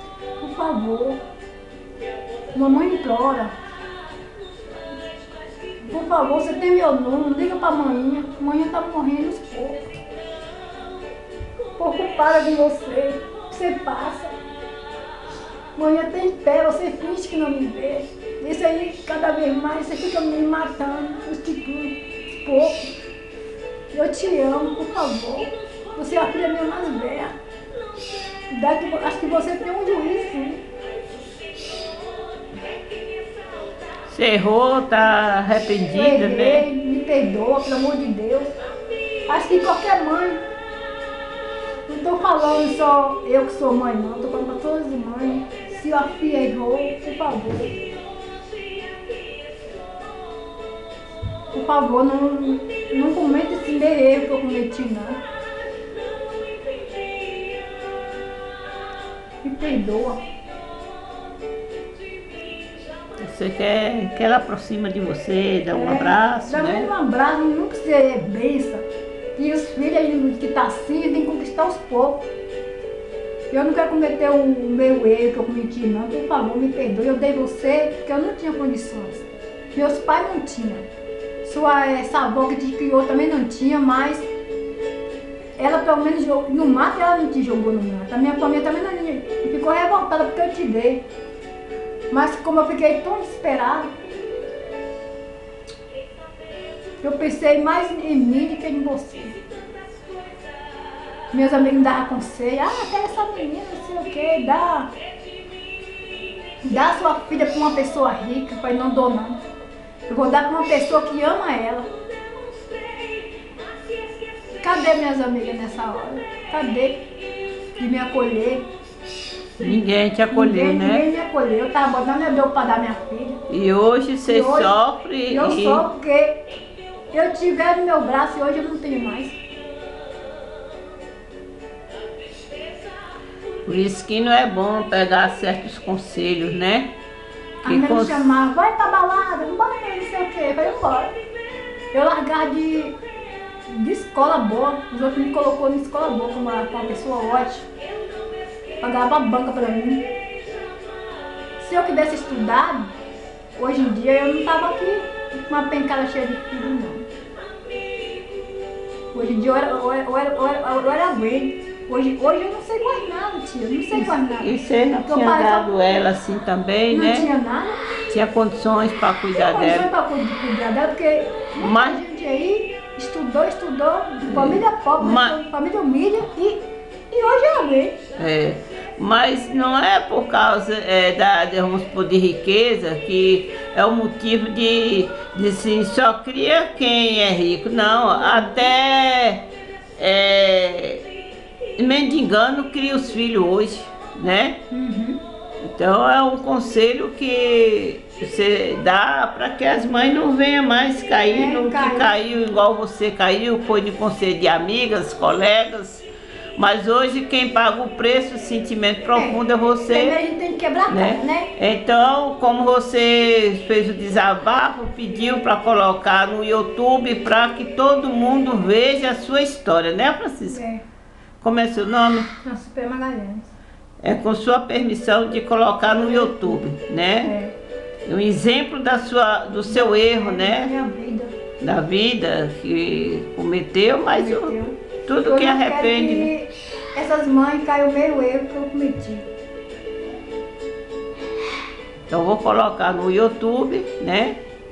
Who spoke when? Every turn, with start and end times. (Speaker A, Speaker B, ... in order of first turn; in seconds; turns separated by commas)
Speaker A: 0.4-1.2, Speaker A: 2.5-3.5, Speaker A: 5.8-9.9, Speaker A: 11.8-14.3, Speaker A: 15.8-22.9, Speaker A: 23.9-27.3, Speaker A: 28.5-30.6, Speaker B: 34.1-36.6, Speaker A: 35.9-38.5, Speaker A: 39.3-40.4, Speaker A: 41.9-47.8, Speaker A: 51.5-55.2, Speaker A: 59.4-60.2, Speaker B: 63.2-66.9, Speaker A: 65.7-72.3, Speaker A: 73.5-80.8, Speaker A: 81.4-84.3, Speaker A: 85.6-91.0, Speaker A: 92.1-93.9, Speaker A: 97.0-99.3, Speaker A: 101.3-104.9, Speaker A: 106.6-109.4, Speaker A: 110.1-111.9, Speaker A: 114.6-117.0, Speaker A: 117.8-118.7, Speaker B: 119.6-121.0, Speaker A: 120.3-123.4, Speaker B: 123.5-125.8, Speaker A: 124.2-124.7, Speaker A: 125.3-126.4, Speaker A: 127.1-129.4, Speaker B: 133.6-136.9, Speaker A: 137.6-141.1, Speaker B: 137.6-138.2, Speaker A: 141.9-143.0, Speaker A: 143.7-147.7, Speaker A: 148.8-150.1, Speaker A: 151.6-152.9, Speaker A: 153.6-157.1, Speaker A: 159.1-165.7, Speaker B: 163.9-167.3, Speaker A: 166.9-167.8, Speaker B: 168.1-169.9, Speaker A: 169.3-178.0, Speaker B: 171.6-172.0, Speaker B: 174.3-175.4, Speaker B: 178.2-191.0, Speaker A: 188.2-188.6, Speaker B: 191.8-194.6, Speaker A: 194.7-195.2, Speaker B: 195.6-210.2, Speaker A: 201.3-202.2, Speaker A: 209.1-211.5, Speaker B: 210.9-220.6, Speaker A: 220.4-220.8, Speaker B: 221.4-222.3, Speaker A: 222.4-223.5, Speaker B: 224.0-227.3, Speaker A: 225.9-226.6, Speaker A: 227.2-227.5, Speaker B: 228.0-230.7, Speaker A: 229.7-231.3, Speaker B: 231.6-234.5, Speaker A: 234.1-239.3, Speaker B: 235.1-236.3, Speaker B: 242.1-244.4